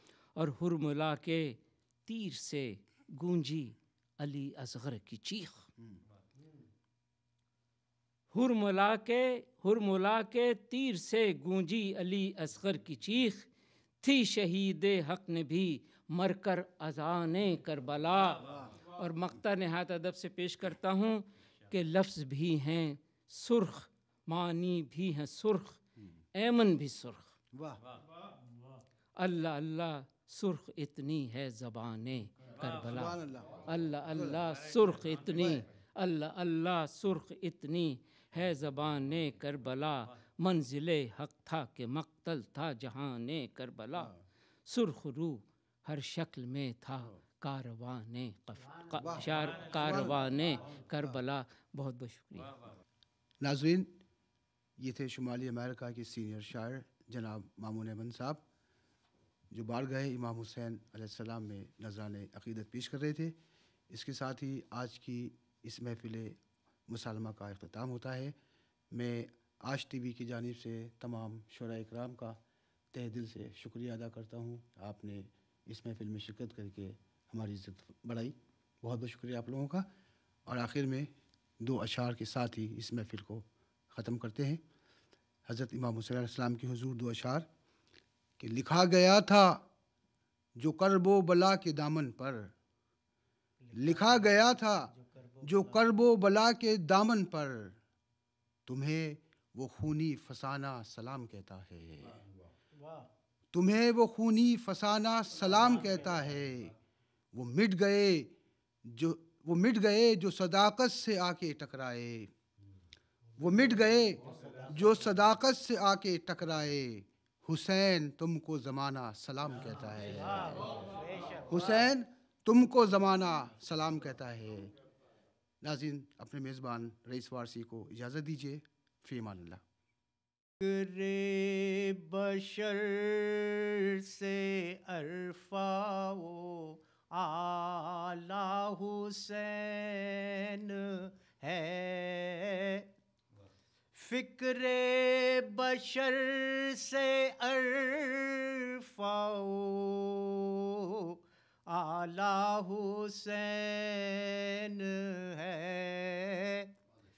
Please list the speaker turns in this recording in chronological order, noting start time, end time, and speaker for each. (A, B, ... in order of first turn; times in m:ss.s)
0:00.4-0:05.6 A
0:08.3-0:13.5 A
0:14.0-0:18.4 A
0:18.4-0:18.7 B
0:19.0-0:25.8 A
0:26.4-0:27.3 A
0:27.5-0:27.8 B
0:29.2-0:33.2 A
0:32.8-0:33.6 B
0:33.7-0:44.1 A
0:34.1-0:34.4 B
0:35.3-0:35.6 B
0:44.7-0:52.5 A
0:49.0-0:50.3 B
0:53.4-0:53.9 B
0:54.8-0:58.4 B
0:59.5-1:03.4 B
1:03.9-1:08.3 B
1:08.9-1:12.4 B
1:12.9-1:19.9 B
1:20.4-1:21.1 B
1:21.6-1:24.6 B
1:25.4-1:27.5 B
1:28.4-1:29.6 B
1:30.6-1:32.5 B
1:33.6-1:34.1 C
1:33.7-1:34.9 B
1:35.4-1:37.8 B
1:38.6-1:42.2 B
1:43.5-1:46.7 B
1:47.3-1:48.3 B
1:48.8-1:52.3 B
1:53.4-2:00.7 B
2:01.5-2:04.7 B
2:05.6-2:09.6 B
2:10.6-2:22.9 C
2:23.9-2:36.7 C